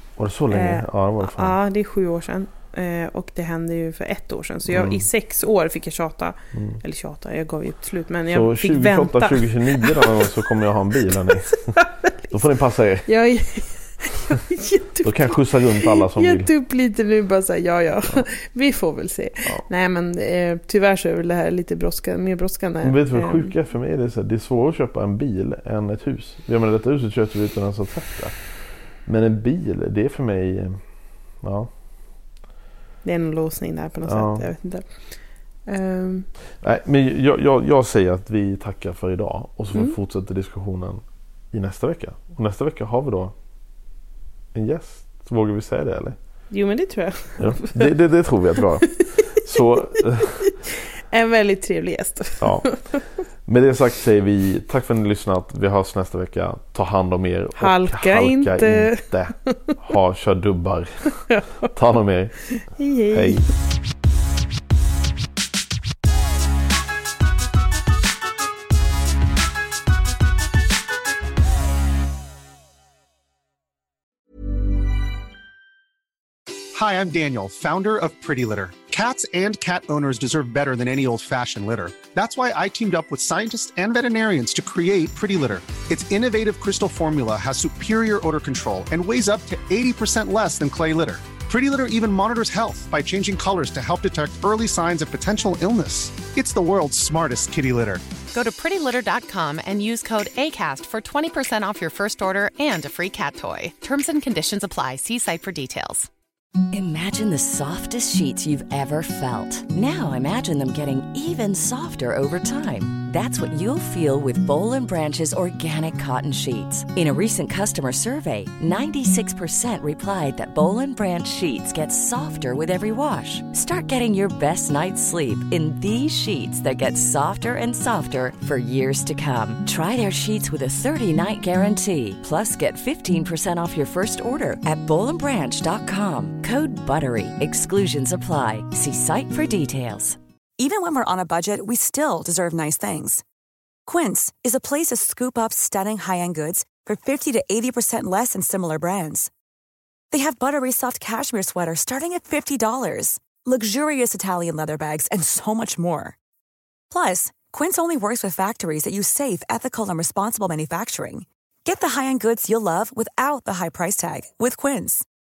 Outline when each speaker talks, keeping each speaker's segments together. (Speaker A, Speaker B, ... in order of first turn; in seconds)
Speaker A: 0.2-1.6, 4.7-5.0, 6.5-6.8, 8.3-11.7, 12.3-13.1, 15.0-16.5, 22.8-31.7, 34.0-34.5, 36.6-43.3, 44.5-46.1, 47.4-50.5, 52.4-52.7, 53.5-62.5, 63.1-63.5
Speaker B: 0.5-10.5, 11.1-12.4, 13.1-23.5, 33.0-36.3, 46.5-47.9, 49.2-53.1, 57.6-59.7, 61.3-61.7, 62.5-63.4
Speaker C: 76.7-98.0
Speaker D: 98.3-106.1
Speaker E: 106.7-140.2
Speaker F: 140.6-143.2, 143.8-149.3, 150.1-156.1, 156.9-165.0